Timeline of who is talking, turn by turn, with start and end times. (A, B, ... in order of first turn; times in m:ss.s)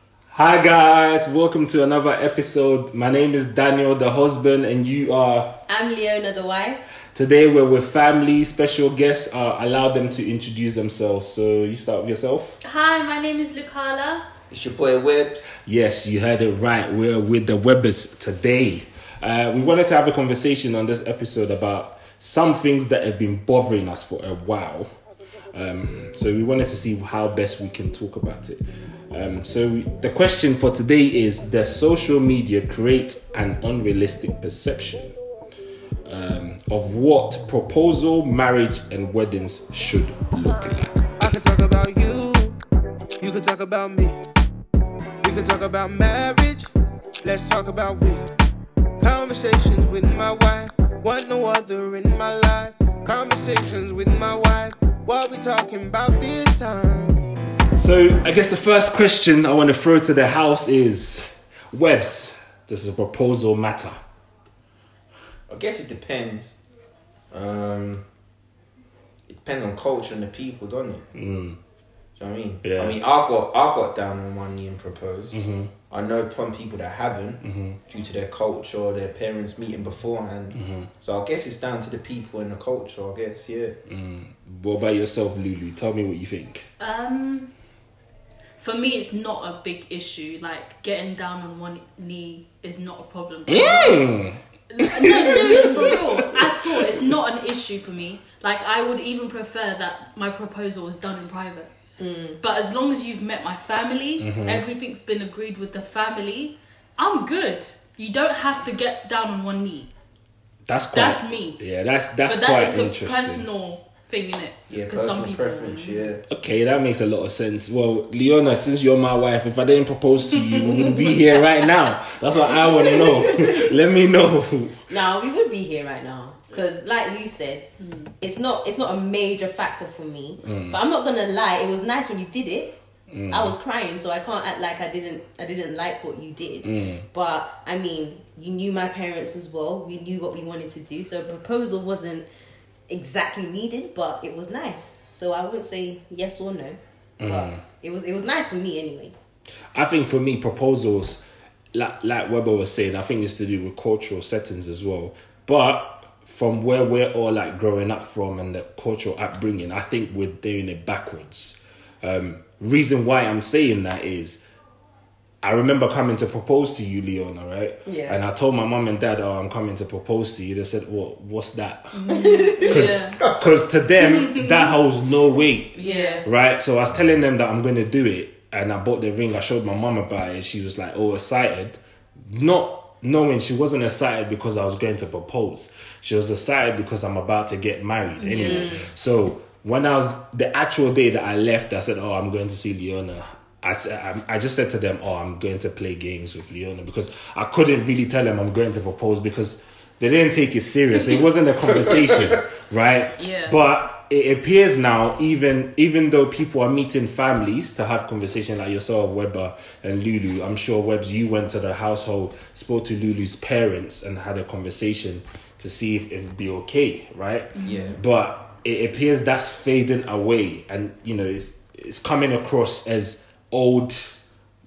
0:00.3-0:05.6 A
0:05.7-0:06.8 B
0:07.1-0:12.6 A
0:12.6-0:14.2 C
0:14.5-0:15.5 D
0:15.6-0:24.9 A
0:25.5-0:35.2 A
0:36.0-0:41.0 A
0:41.2-0:42.6 E
0:43.2-0:44.2 E
0:45.2-0:46.7 E
0:47.2-0:48.2 E
0:49.0-0:57.2 E
0:57.7-1:04.0 A
1:05.5-1:06.5 D
1:07.3-1:08.0 D
1:09.3-1:11.0 D
1:11.1-1:11.6 A
1:12.2-1:23.7 D
1:12.6-1:13.0 A
1:15.3-1:15.7 A
1:17.4-1:17.8 A
1:20.5-1:20.9 A
1:23.9-1:26.7 A
1:26.8-1:27.5 C
1:28.6-1:34.2 C
1:33.5-1:37.1 A
1:34.7-1:41.7 C
1:42.0-1:42.4 B
1:42.4-1:49.9 C
1:44.2-1:44.6 A
1:50.7-1:53.4 A
1:50.9-1:51.6 C
1:52.2-1:56.1 C
1:54.7-1:56.2 D
1:56.3-2:04.8 A
2:02.6-2:03.7 B
2:04.9-2:07.7 B
2:07.8-2:08.1 C
2:08.2-2:12.7 B
2:10.4-2:10.8 A
2:13.1-2:13.5 A
2:13.3-2:22.2 B
2:16.6-2:17.0 A
2:22.9-2:29.1 B
2:27.2-2:27.6 A
2:29.7-2:31.2 A
2:31.7-2:44.4 A
2:45.4-3:44.1 A
2:47.8-2:48.2 B
2:51.9-2:53.2 C
2:52.1-2:52.9 B
2:54.0-2:54.8 C
2:55.7-2:56.2 C
2:55.8-2:56.2 B
3:08.2-3:08.8 C
3:08.4-3:08.9 B
3:21.8-3:22.2 D
3:23.2-3:23.6 C
3:37.5-3:37.9 C
3:37.6-3:38.0 D